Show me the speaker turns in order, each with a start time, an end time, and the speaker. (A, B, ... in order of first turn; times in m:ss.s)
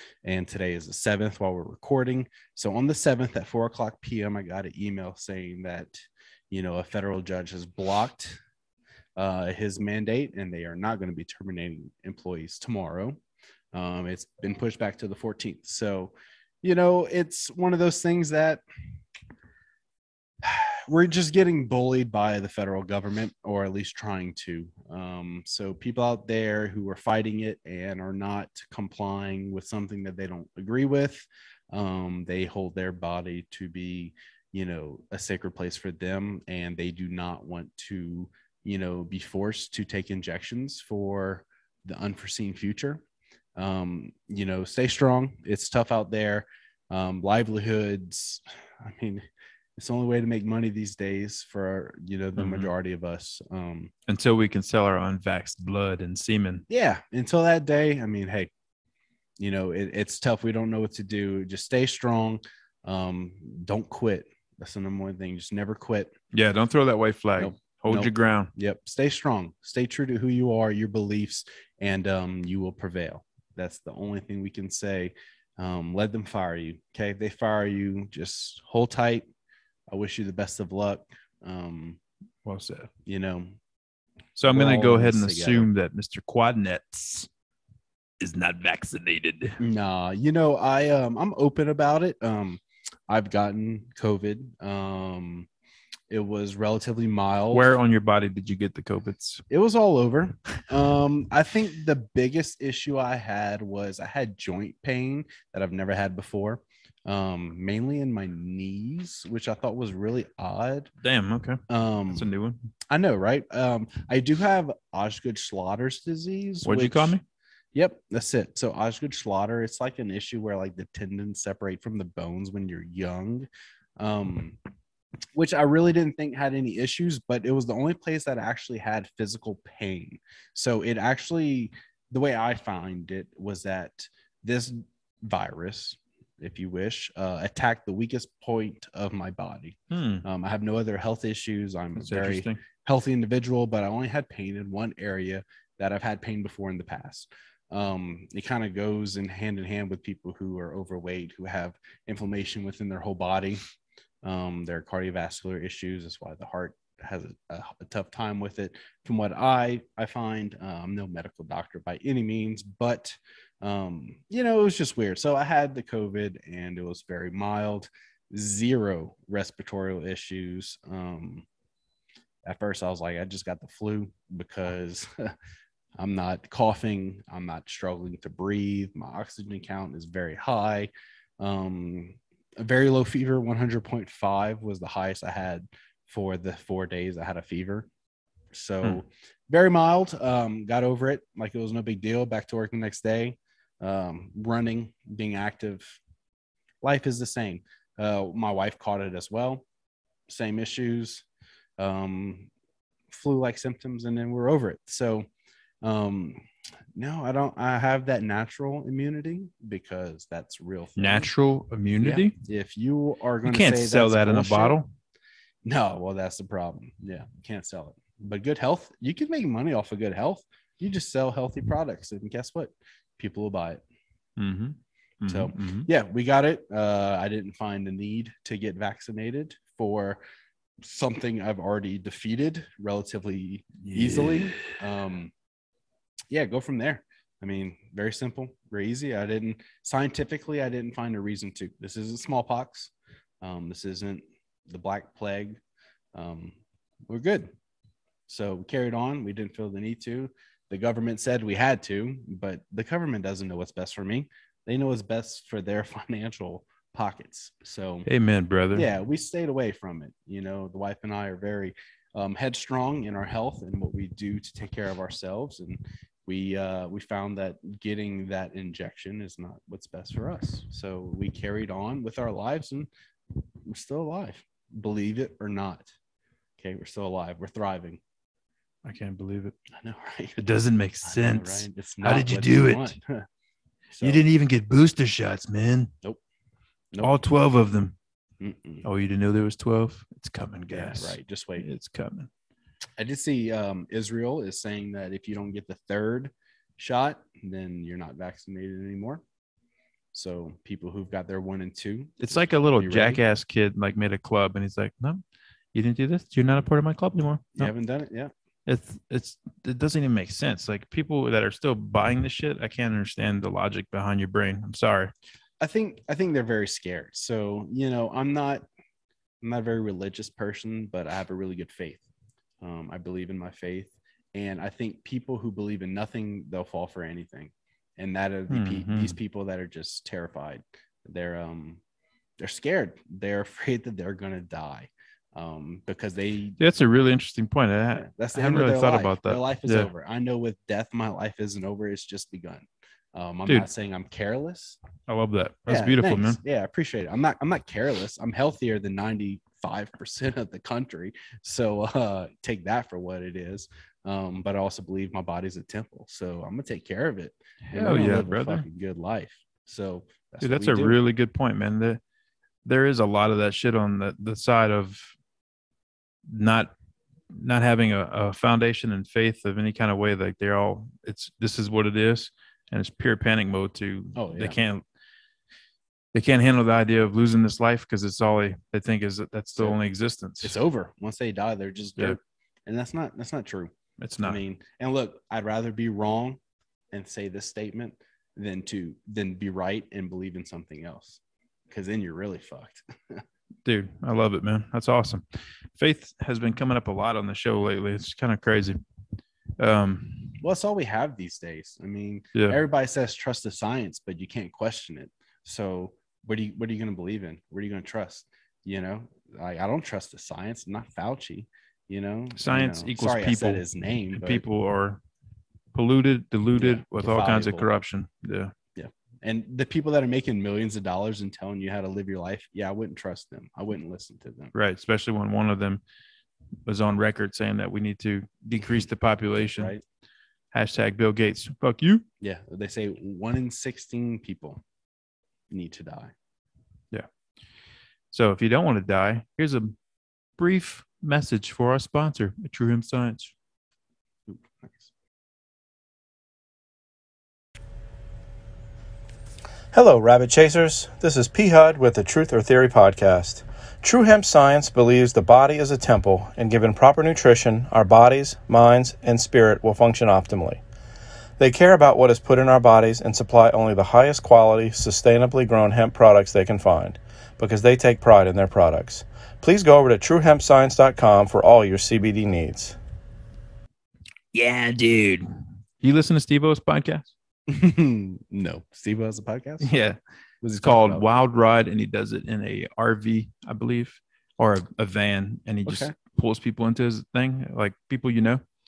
0:00.2-0:08.4 A
0:09.2-0:13.2 A
0:13.7-0:18.6 A
0:20.4-0:43.0 A
0:43.6-0:49.2 A
0:49.8-0:53.9 A
0:52.4-0:52.7 B
0:54.1-0:56.6 B
0:56.7-0:58.5 A
0:59.4-1:06.1 A
1:06.3-1:08.5 B
1:07.4-1:19.3 A
1:19.9-1:22.0 A
1:22.4-1:22.9 B
1:23.0-1:23.6 A
1:24.4-1:27.3 B
1:24.5-1:25.7 A
1:28.2-1:29.6 B
1:29.6-1:35.5 A
1:36.1-1:37.7 A
1:37.5-1:39.4 B
1:39.5-1:50.9 A
1:51.0-1:52.6 B
1:51.7-1:52.3 A
1:52.9-1:57.1 A
1:56.6-1:57.2 B
1:57.7-2:03.5 A
2:04.0-2:04.6 A
2:05.3-2:33.6 A
2:19.9-2:20.2 B
2:22.0-2:22.6 B
2:34.2-2:51.4 A
2:52.5-2:55.3 A
2:56.0-3:07.9 A
3:08.5-3:16.0 A
3:16.8-3:19.6 A
3:20.3-3:21.2 A
3:21.8-3:22.5 A
3:23.1-3:25.3 A
3:25.8-3:31.3 A
3:31.0-3:32.4 B
3:32.0-3:34.8 A
3:33.4-3:34.9 B
3:35.6-3:43.8 A
3:44.4-3:45.9 B
3:45.3-3:50.2 A
3:50.8-3:55.3 A
3:53.8-3:54.8 B
3:56.3-4:05.6 A
4:06.1-4:06.6 A
4:07.1-4:07.5 A
4:08.3-4:18.1 A
4:18.0-4:18.9 B
4:18.7-4:32.9 A
4:33.6-4:35.9 A
4:36.6-4:38.0 A
4:38.8-4:39.5 B
4:39.7-4:40.4 A
4:40.4-4:43.0 B
4:41.0-4:43.2 A
4:43.9-4:44.2 A
4:44.0-4:45.9 B
4:47.0-4:47.9 B
4:48.4-4:48.8 A
4:48.8-4:52.3 B
4:50.7-4:51.7 A
4:53.0-4:59.2 A
5:00.1-5:03.2 A
5:02.2-5:05.2 B
5:05.7-5:07.7 B
5:07.6-5:08.3 A
5:08.6-5:15.1 B
5:15.6-5:18.6 A
5:19.4-5:22.0 A
5:22.6-5:31.8 A
5:28.5-5:29.2 B
5:32.4-5:36.6 A
5:36.6-5:39.9 B
5:37.9-5:44.8 A
5:45.1-5:46.4 B
5:45.7-6:01.0 A
5:57.7-5:58.6 B
6:00.4-6:02.0 B
6:02.6-6:05.1 B
6:06.3-6:06.7 B
6:07.3-6:14.8 B
6:14.1-6:14.6 A
6:16.1-6:20.6 B
6:20.4-6:26.4 A
6:24.0-6:24.4 B
6:26.9-6:33.2 A
6:33.6-6:35.2 B
6:35.7-6:38.8 B
6:39.6-6:40.4 B
6:40.4-6:54.4 A
6:52.4-6:55.0 B
6:55.7-6:58.5 B
6:56.6-6:57.7 A
6:58.7-7:04.5 A
7:04.5-7:05.8 B
7:06.6-7:09.7 B
7:08.6-7:08.9 A
7:09.4-7:09.8 A
7:10.5-7:12.0 B
7:12.2-7:14.6 A
7:15.5-7:16.1 A
7:18.1-7:19.8 B
7:20.4-7:23.3 B
7:24.3-7:24.9 A
7:29.7-7:40.6 C
7:41.4-7:52.8 C
7:54.3-7:57.1 B
7:57.5-7:59.7 A
7:59.6-8:00.0 B
8:00.4-8:01.0 A
8:00.6-8:08.4 B
8:05.6-8:05.9 A